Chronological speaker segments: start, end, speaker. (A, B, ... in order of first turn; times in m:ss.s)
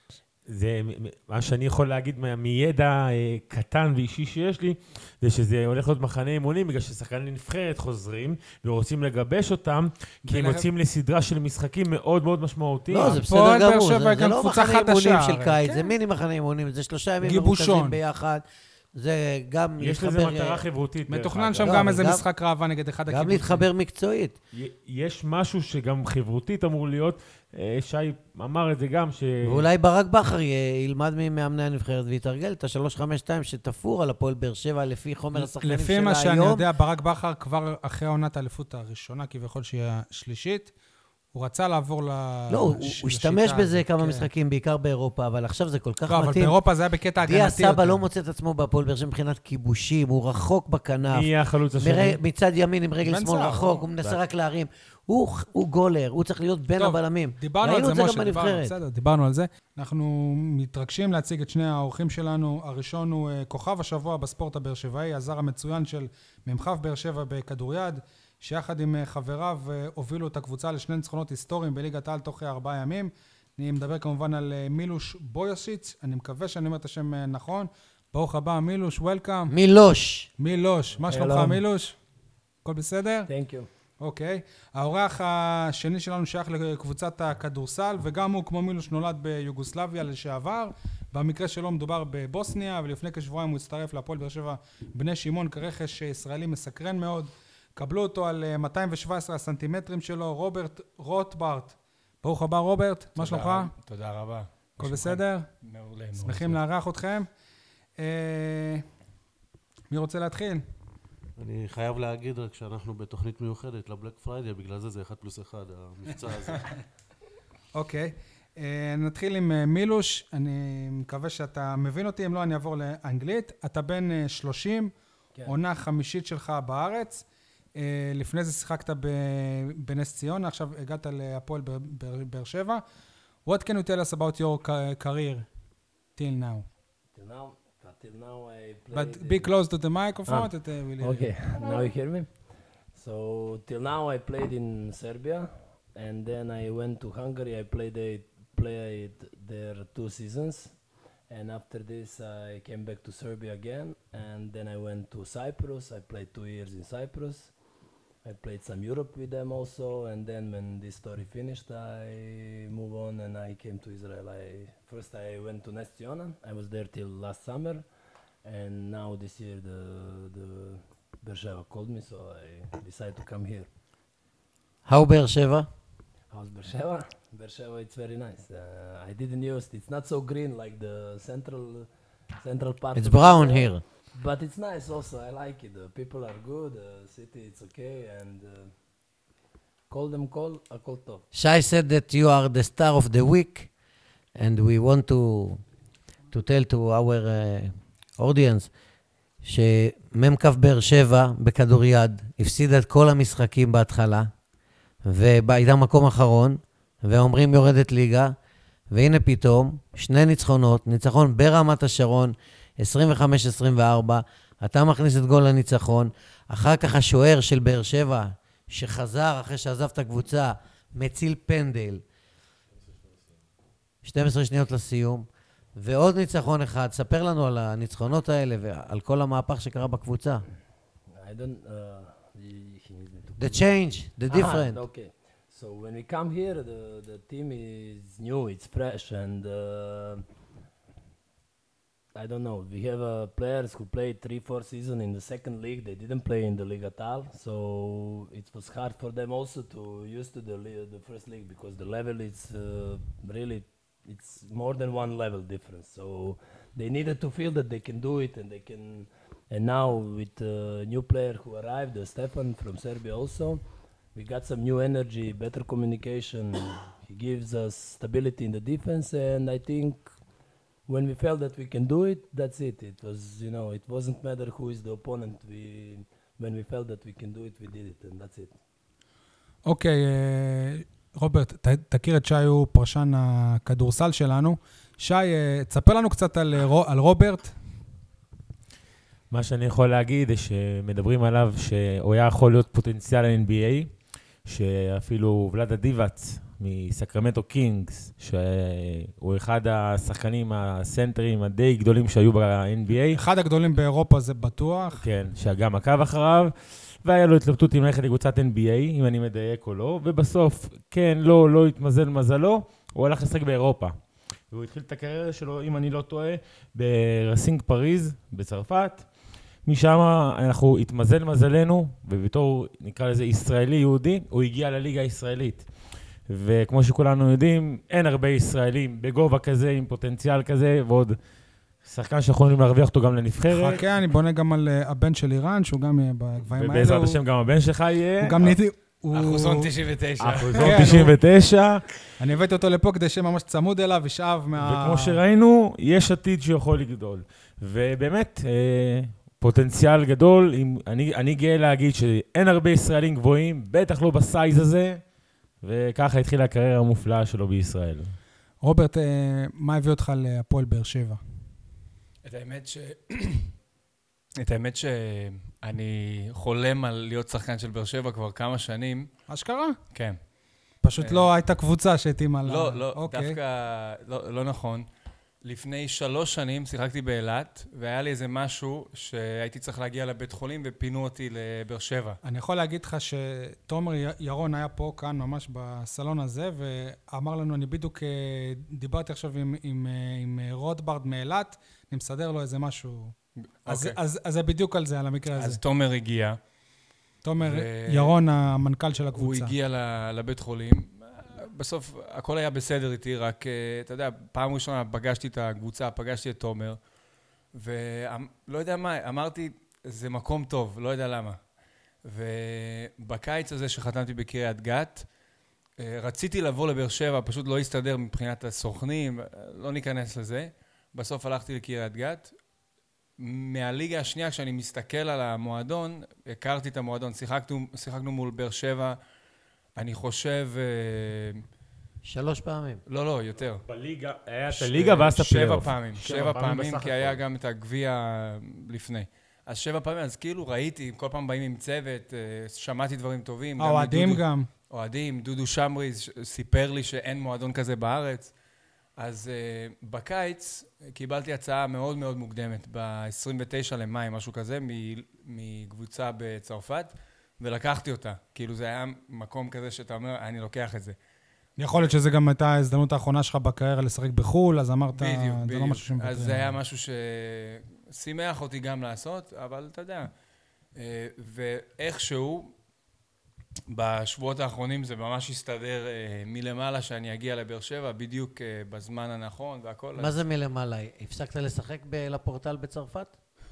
0:00.5-0:13.2 A
0:10.2-0:10.7 B
0:12.9-0:18.4 C
0:13.2-0:15.9 B
0:17.2-0:18.0 B
0:18.9-0:20.6 C
0:19.8-0:21.9 A
0:21.1-0:23.7 B
0:21.6-0:22.2 C
0:23.1-0:24.4 C
0:24.5-0:29.7 A
0:29.4-0:36.6 C
0:35.3-0:40.7 B
0:41.3-0:44.3 B
0:42.5-0:46.6 C
0:46.1-0:48.0 B
0:47.2-0:58.7 C
0:51.1-0:52.2 A
0:53.0-0:53.8 B
0:56.8-1:19.5 B
1:19.5-1:20.3 C
1:20.4-1:22.0 B
1:21.1-1:21.6 D
1:22.6-1:23.3 B
1:23.3-1:23.7 D
1:24.0-1:43.7 B
1:43.2-1:46.6 E
1:44.8-1:45.5 B
1:46.2-1:47.3 B
1:48.0-1:48.8 B
1:49.9-1:50.6 B
1:51.4-1:56.7 F
1:57.7-2:04.9 B
2:05.4-2:07.2 B
2:07.8-2:12.8 B
2:13.4-2:15.4 B
2:16.2-2:16.6 B
2:17.1-2:19.5 D
2:18.9-2:21.3 B
2:20.3-2:22.3 D
2:22.9-2:30.7 D
2:31.3-2:37.5 D
2:38.2-2:47.8 D
2:48.4-2:53.7 D
2:54.8-2:55.7 C
2:56.3-3:01.9 D
3:02.4-3:08.7 D
3:02.9-3:03.8 C
3:09.9-3:11.2 D
3:11.3-3:13.7 C
3:14.4-3:15.6 C
3:16.3-3:18.7 C
3:19.4-3:24.3 C
3:25.0-3:28.3 C
3:28.9-3:42.0 C
3:44.0-3:50.4 C
3:51.1-3:53.6 D
3:53.4-3:54.8 C
3:54.3-4:00.2 D
4:02.1-4:23.6 D
4:24.1-4:30.1 D
4:30.9-4:38.5 D
4:39.6-4:47.5 B
4:49.3-4:53.9 A
4:54.4-5:03.2 A
5:03.1-5:05.0 B
5:05.0-5:14.0 A
5:14.5-5:19.0 A
5:19.6-5:25.7 A
5:26.3-5:31.2 A
5:31.8-5:33.8 A
5:33.5-5:37.2 B
5:36.5-5:38.6 A
5:38.2-5:39.7 B
5:39.1-5:41.0 E
5:40.2-5:41.9 A
5:40.6-5:41.1 B
5:42.2-5:45.2 B
5:44.6-5:55.0 A
5:55.6-5:58.1 A
5:58.6-6:01.2 B
6:02.2-6:03.5 E
6:04.4-6:09.1 E
6:09.3-6:09.8 B
6:09.9-6:10.2 E
6:10.8-6:13.4 B
6:11.0-6:11.3 E
6:12.5-6:14.9 E
6:15.4-6:22.2 E
6:22.2-6:33.1 B
6:33.6-6:34.0 E
6:33.7-6:35.6 B
6:35.4-6:36.4 E
6:37.2-6:39.5 B
6:37.4-6:38.2 E
6:39.1-6:46.8 E
6:47.5-6:51.4 E
6:52.0-6:55.1 E
6:55.8-7:02.3 E
7:03.2-7:09.0 E
7:09.8-7:11.4 E
7:12.0-7:12.8 C
7:12.9-7:13.6 E
7:13.6-7:17.2 A
7:14.5-7:28.3 E
7:23.6-7:24.5 B
7:29.0-7:41.0 E
7:41.6-7:46.6 B
7:44.9-7:50.1 E
7:50.7-7:52.5 E
7:53.7-8:00.2 E
8:00.0-8:03.1 C